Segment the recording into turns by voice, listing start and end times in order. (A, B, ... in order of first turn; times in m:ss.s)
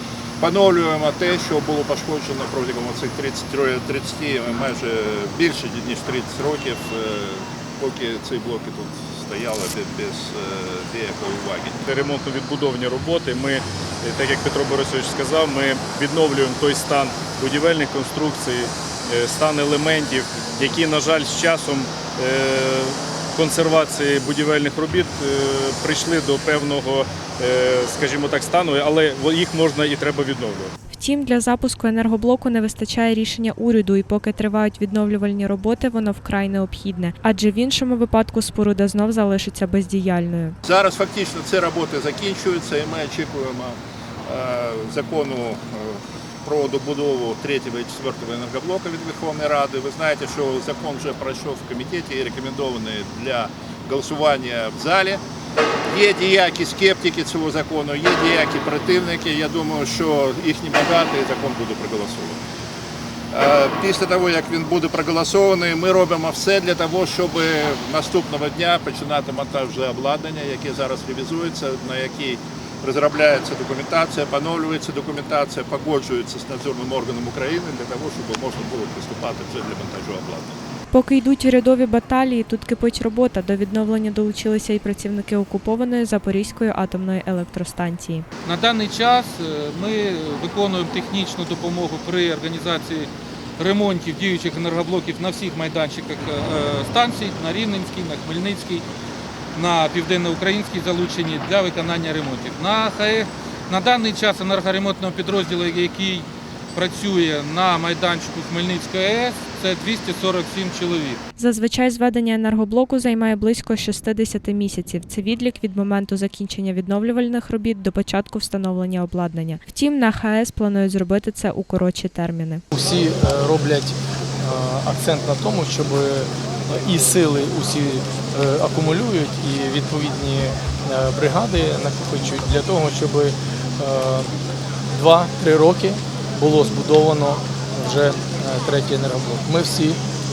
0:00.4-0:11.8 A
0:11.8-0:30.7 B
0:30.9-0:40.6 C
0:40.6-0:55.2 A
0:55.9-1:02.4 A
1:03.3-1:20.6 A
1:20.9-1:28.2 C
1:28.4-1:38.8 D
1:39.5-1:51.2 D
1:51.4-2:02.6 C
2:02.7-2:14.3 E
2:14.9-2:20.0 E